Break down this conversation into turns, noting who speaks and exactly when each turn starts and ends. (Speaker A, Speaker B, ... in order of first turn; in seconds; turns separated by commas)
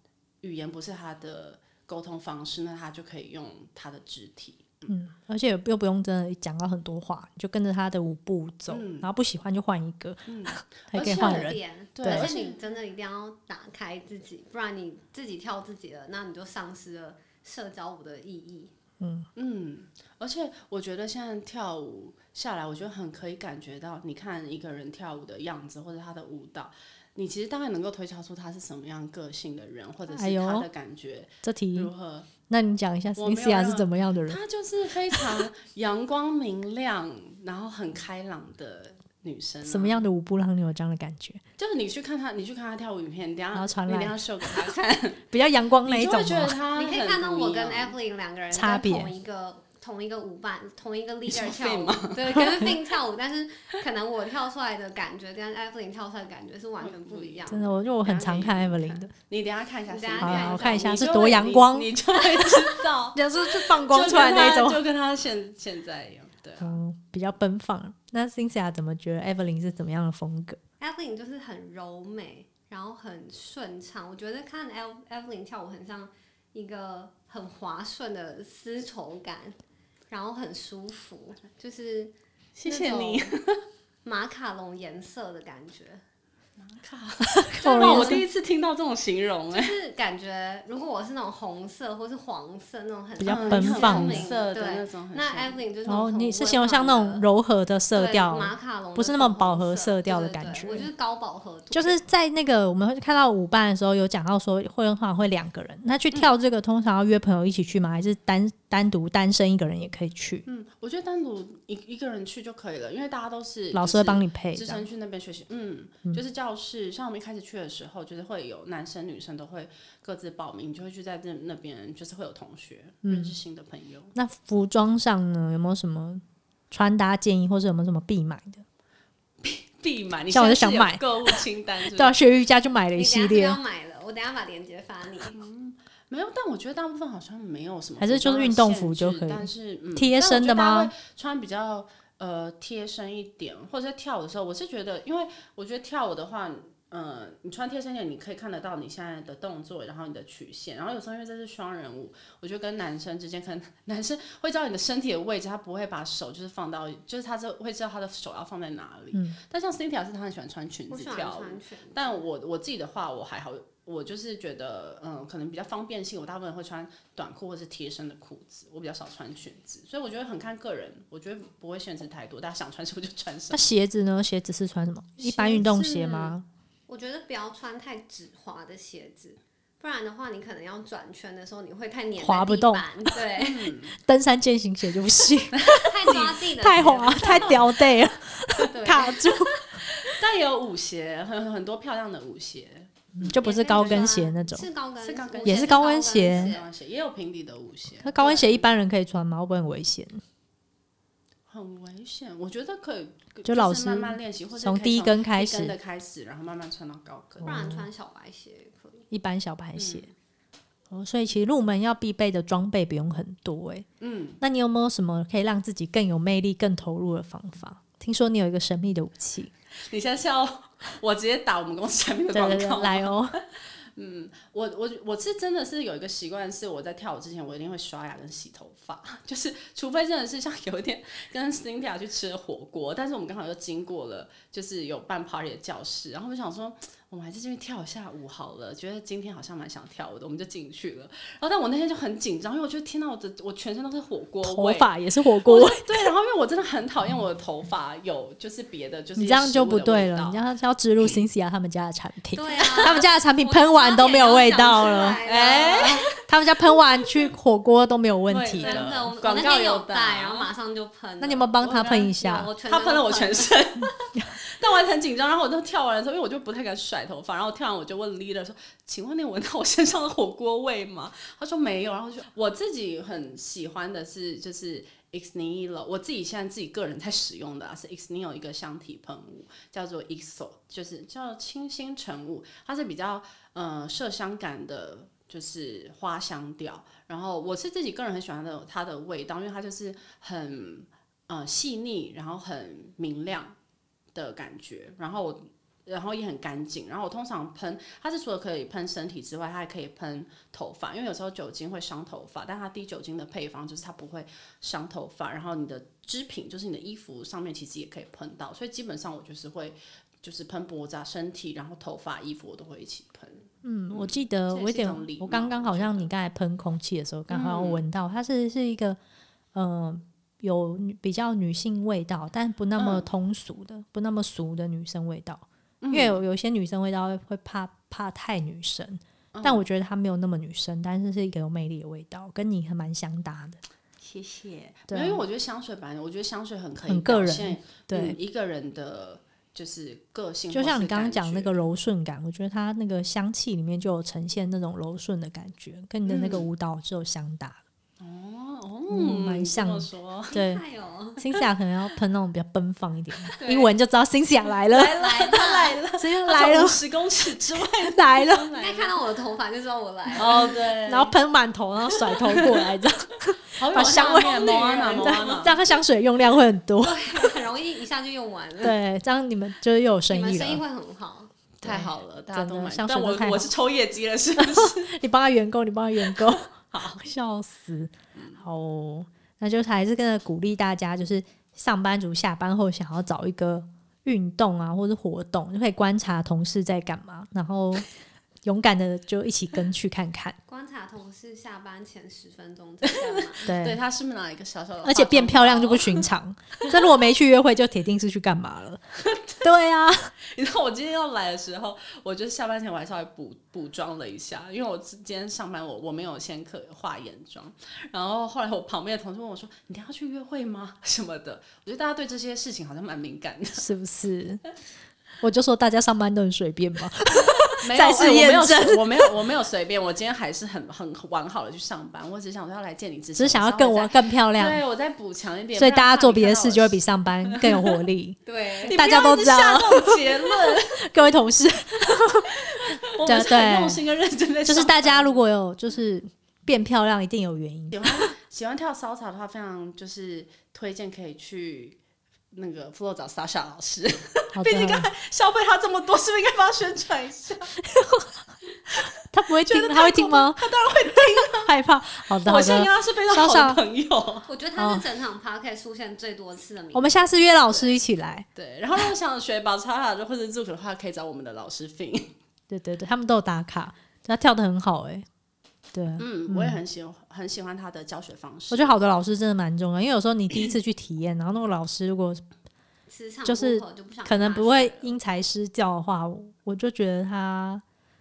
Speaker A: 0.4-4.9, Speaker B: 4.9-12.3, Speaker A: 8.7-9.1, Speaker A: 10.3-12.6, Speaker C: 11.0-18.7, Speaker B: 19.0-19.3, Speaker A: 19.4-32.3, Speaker B: 30.1-30.7, Speaker B: 31.4-31.9, Speaker B: 32.5-34.4, Speaker A: 33.2-40.1, Speaker B: 39.6-41.4, Speaker A: 41.6-45.2, Speaker B: 43.5-44.2, Speaker B: 45.3-46.5, Speaker A: 45.8-47.9, Speaker C: 46.7-57.7, Speaker B: 48.5-49.1, Speaker A: 51.3-52.9, Speaker A: 56.8-66.7, Speaker B: 57.5-59.1, Speaker C: 59.9-61.4, Speaker B: 60.2-61.9, Speaker B: 63.1-64.8, Speaker B: 66.6-70.6, Speaker C: 70.8-79.5, Speaker C: 80.1-82.1, Speaker A: 82.5-83.6, Speaker C: 82.6-83.3, Speaker C: 84.0-86.0, Speaker A: 86.6-89.7, Speaker B: 87.2-88.2, Speaker C: 87.7-88.2, Speaker C: 89.5-97.2, Speaker B: 93.2-94.2, Speaker A: 93.2-95.6, Speaker B: 95.9-100.9, Speaker C: 97.9-102.0, Speaker B: 101.7-110.4, Speaker A: 110.5-124.1, Speaker B: 113.7-114.8, Speaker B: 123.0-123.3, Speaker B: 124.1-128.6, Speaker A: 129.4-132.2, Speaker B: 130.3-131.4, Speaker B: 131.9-133.6, Speaker C: 132.9-135.4, Speaker A: 135.3-173.6, Speaker B: 138.0-140.9, Speaker B: 159.1-159.4, Speaker C: 160.9-162.2, Speaker B: 173.5-176.4, Speaker C: 175.2-176.3, Speaker C: 176.9-183.7, Speaker B: 182.2-182.8, Speaker A: 183.3-184.0, Speaker B: 184.1-189.7, Speaker A: 185.5-186.4, Speaker C: 185.8-187.7, Speaker A: 187.1-187.6, Speaker C: 188.7-189.7, Speaker A: 190.0-194.2, Speaker B: 193.2-194.7, Speaker C: 193.3-196.6, Speaker A: 195.0-198.8, Speaker B: 195.4-196.5, Speaker B: 198.0-200.2, Speaker A: 201.5-207.7, Speaker B: 203.4-205.7, Speaker B: 207.4-207.9, Speaker C: 207.4-209.1, Speaker B: 209.1-210.1, Speaker B: 210.9-213.8, Speaker A: 214.0-214.4, Speaker B: 214.4-219.5, Speaker A: 219.8-223.4, Speaker B: 222.3-223.4, Speaker A: 223.9-244.9, Speaker B: 244.4-245.9, Speaker A: 245.4-250.4, Speaker B: 249.2-255.2, Speaker C: 252.3-256.1, Speaker A: 252.7-253.0, Speaker A: 255.2-256.1, Speaker B: 256.2-258.9, Speaker A: 258.3-260.5, Speaker C: 258.6-263.7, Speaker B: 261.2-262.5, Speaker A: 261.6-293.6, Speaker A: 294.1-316.1, Speaker B: 313.6-319.0, Speaker A: 317.3-317.8, Speaker B: 319.5-333.6, Speaker A: 322.8-323.1, Speaker A: 325.8-326.2, Speaker A: 329.3-329.6, Speaker A: 334.0-341.6, Speaker B: 334.9-335.2, Speaker B: 336.9-338.2, Speaker B: 340.5-347.6, Speaker A: 346.1-346.5, Speaker A: 348.0-350.3, Speaker B: 348.9-350.6, Speaker C: 350.3-351.2, Speaker B: 351.2-355.0, Speaker C: 353.4-353.7, Speaker A: 354.7-359.0, Speaker C: 354.9-355.8, Speaker B: 356.0-356.8, Speaker B: 357.8-358.5, Speaker C: 358.6-360.4, Speaker A: 360.1-361.2, Speaker B: 360.9-367.2, Speaker A: 361.9-362.8, Speaker A: 363.6-365.5, Speaker C: 363.9-365.4, Speaker C: 366.8-368.8, Speaker B: 368.6-370.6, Speaker C: 370.1-371.3, Speaker B: 371.6-373.5, Speaker A: 371.6-374.9, Speaker B: 374.4-387.9, Speaker A: 376.0-377.0, Speaker A: 378.1-378.4, Speaker B: 388.4-390.4, Speaker C: 390.5-393.4, Speaker A: 392.8-396.1, Speaker B: 393.4-393.8, Speaker B: 394.8-398.8, Speaker A: 399.0-399.4, Speaker B: 399.4-400.1, Speaker A: 400.2-413.6, Speaker B: 413.6-414.4, Speaker B: 415.2-419.1, Speaker A: 417.6-427.8, Speaker B: 423.1-424.6, Speaker B: 425.6-428.2, Speaker C: 428.2-428.8, Speaker A: 428.6-430.8, Speaker B: 428.7-432.3, Speaker A: 432.5-435.2, Speaker B: 433.0-433.8, Speaker B: 434.4-438.1, Speaker A: 437.7-441.8, Speaker A: 442.3-447.5, Speaker B: 444.3-444.9, Speaker B: 447.7-448.1, Speaker B: 449.1-450.4, Speaker A: 449.4-451.5, Speaker B: 451.3-453.6, Speaker A: 452.2-454.3, Speaker C: 454.3-457.1, Speaker B: 454.6-454.8, Speaker B: 456.7-458.2, Speaker A: 457.5-457.8, Speaker A: 458.3-462.1, Speaker B: 462.5-465.1, Speaker B: 465.7-466.6, Speaker A: 466.0-468.8, Speaker B: 468.5-472.2, Speaker C: 472.9-475.0, Speaker B: 473.2-477.6